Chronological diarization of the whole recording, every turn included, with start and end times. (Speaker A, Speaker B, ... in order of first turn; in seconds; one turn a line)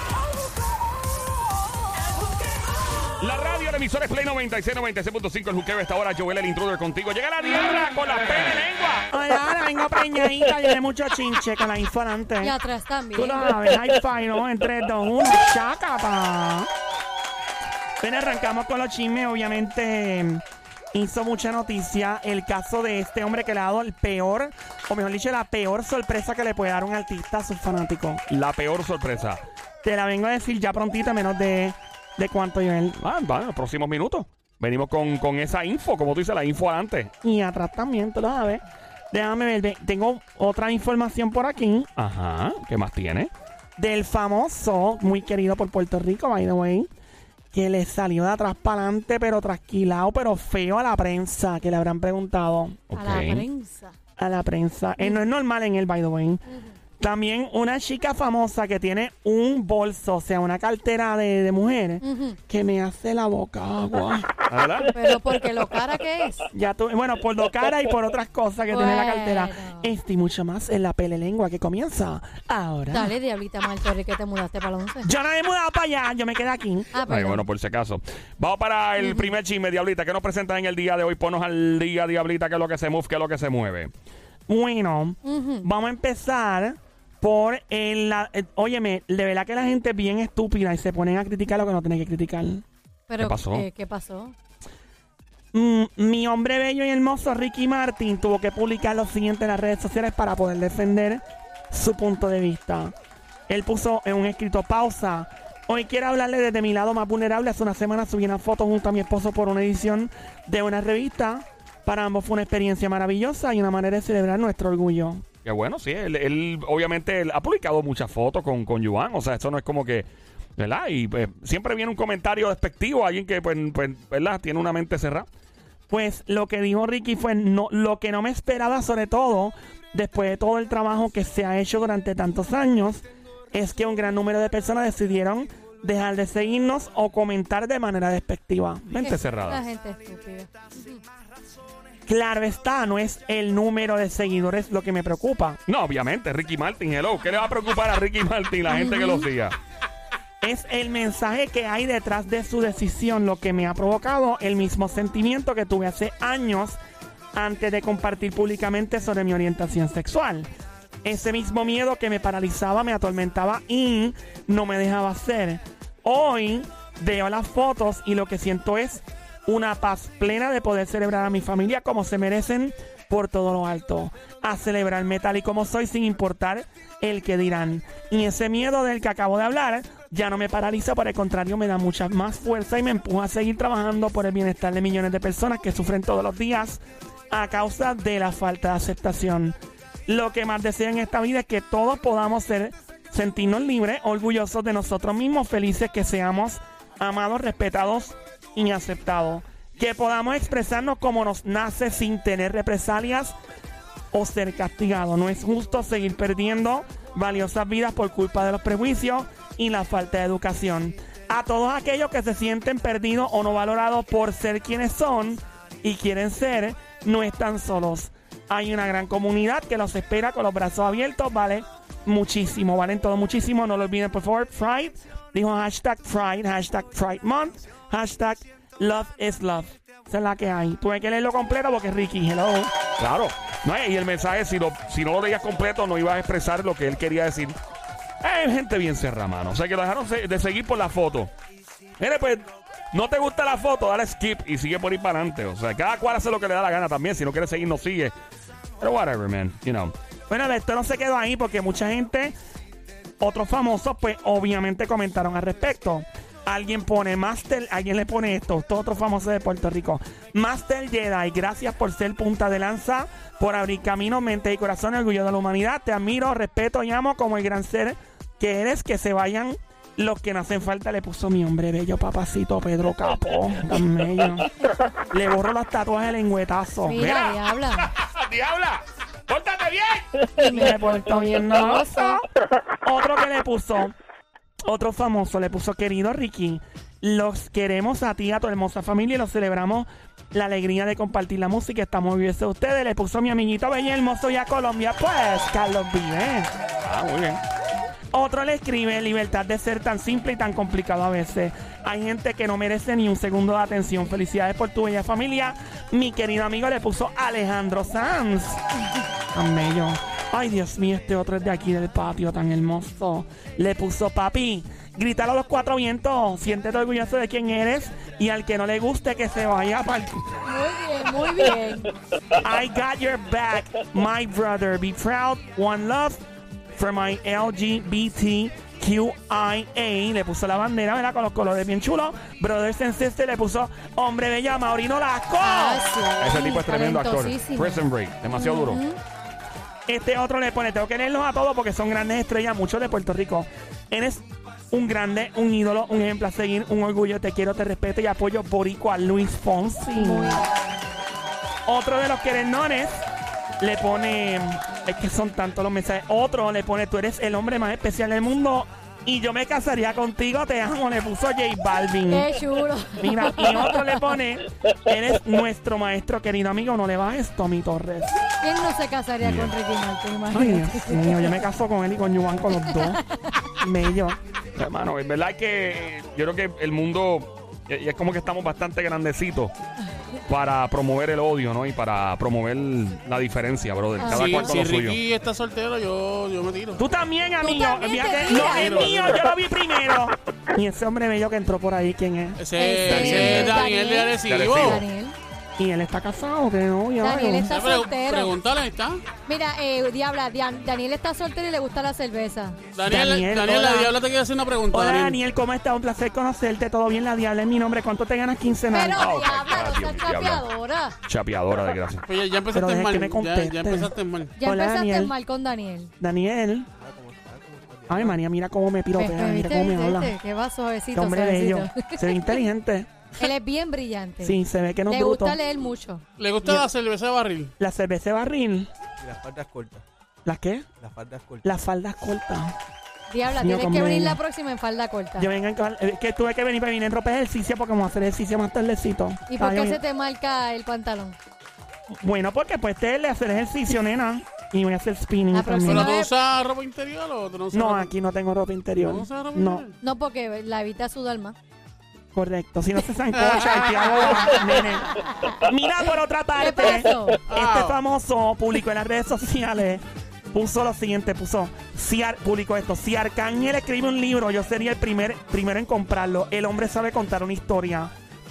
Speaker A: 3.2-9.1
Speaker B: 9.1-12.5
Speaker C: 12.4-13.5
Speaker B: 13.1-16.7
Speaker B: 18.0-20.4
Speaker B: 20.9-28.2
Speaker A: 28.3-29.4
Speaker B: 29.8-33.0
Speaker A: 33.0-37.1
Speaker B: 37.2-41.9
Speaker A: 42.0-43.3
Speaker B: 43.8-46.9
Speaker B: 47.5-52.8
Speaker A: 52.9-53.5
Speaker C: 53.0-53.9
Speaker B: 54.2-56.4
Speaker C: 56.5-56.7
Speaker B: 57.0-64.2
Speaker C: 62.0-62.4
Speaker A: 64.5-64.9
Speaker C: 64.9-66.5
Speaker B: 66.5-73.1
Speaker C: 68.7-69.9
Speaker C: 72.9-75.1
Speaker B: 75.0-76.9
Speaker C: 76.9-77.4
Speaker A: 77.1-83.9
Speaker C: 79.0-79.3
Speaker B: 84.5-92.6
Speaker C: 85.2-85.7
Speaker C: 93.1-94.3
Speaker A: 93.2-93.7
Speaker B: 95.5-102.9
Speaker B: 103.5-115.2
Speaker A: 115.4-125.2
Speaker B: 125.9-139.1
Speaker C: 138.9-141.0
Speaker A: 139.0-139.6
Speaker B: 142.1-145.6
Speaker A: 145.7-149.6
Speaker C: 148.7-149.3
Speaker B: 150.4-156.8
Speaker B: 157.3-160.5
Speaker B: 161.0-186.8
Speaker B: 187.3-189.5
Speaker B: 190.1-203.3
Speaker B: 204.1-232.7
Speaker A: 233.0-237.6
Speaker A: 238.2-241.3
Speaker A: 242.0-248.1
Speaker A: 248.8-249.9
Speaker B: 250.3-252.3
Speaker B: 253.2-274.5
Speaker B: 275.1-277.3
Speaker C: 276.8-277.9
Speaker A: 277.9-280.5
Speaker C: 280.4-282.2
Speaker B: 280.5-282.2
Speaker B: 282.8-283.9
Speaker B: 284.6-296.5
Speaker A: 296.8-297.4
Speaker B: 298.1-308.6
Speaker B: 309.3-320.2
Speaker C: 320.4-321.9
Speaker B: 322.4-326.2
Speaker B: 326.8-335.9
Speaker C: 335.4-339.0
Speaker A: 336.2-338.8
Speaker B: 339.9-350.4
Speaker C: 349.9-350.4
Speaker B: 351.7-353.1
Speaker B: 353.6-362.3
Speaker C: 362.1-364.1
Speaker B: 363.0-368.2
Speaker C: 368.4-371.4
Speaker A: 369.2-369.5
Speaker B: 370.3-373.0
Speaker C: 372.6-373.1
Speaker B: 373.6-374.2
Speaker A: 374.6-379.5
Speaker A: 380.3-385.0
Speaker C: 384.0-384.6
Speaker D: 384.1-386.8
Speaker B: 386.8-392.4
Speaker C: 387.4-388.9
Speaker D: 388.5-389.1
Speaker D: 392.4-394.8
Speaker C: 392.5-395.2
Speaker A: 392.8-393.6
Speaker A: 394.2-394.8
Speaker B: 395.6-397.5
Speaker C: 397.0-398.3
Speaker D: 397.5-399.1
Speaker C: 399.2-402.6
Speaker D: 402.7-405.2
Speaker B: 402.8-403.9
Speaker B: 404.7-409.1
Speaker C: 408.7-410.9
Speaker A: 408.9-410.4
Speaker A: 411.1-412.0
Speaker D: 412.1-414.4
Speaker B: 412.5-415.1
Speaker C: 414.4-415.9
Speaker B: 416.0-416.7
Speaker E: 416.8-418.2
Speaker B: 417.9-420.1
Speaker C: 418.9-422.4
Speaker B: 420.9-422.9
Speaker C: 423.2-426.0
Speaker B: 424.2-425.4
Speaker D: 426.2-427.5
Speaker B: 427.6-428.7
Speaker E: 429.0-429.8
Speaker B: 430.2-430.7
Speaker E: 430.8-431.4
Speaker B: 431.4-432.5
Speaker C: 433.1-435.3
Speaker B: 433.2-434.2
Speaker B: 435.2-439.8
Speaker C: 439.3-441.2
Speaker B: 442.0-445.9
Speaker C: 445.3-446.1
Speaker D: 445.6-447.9
Speaker B: 447.5-449.6
Speaker D: 448.8-449.7
Speaker C: 449.8-451.4
Speaker B: 452.1-467.9
Speaker D: 453.1-454.2
Speaker C: 454.2-455.4
Speaker C: 456.4-457.2
Speaker D: 457.3-457.8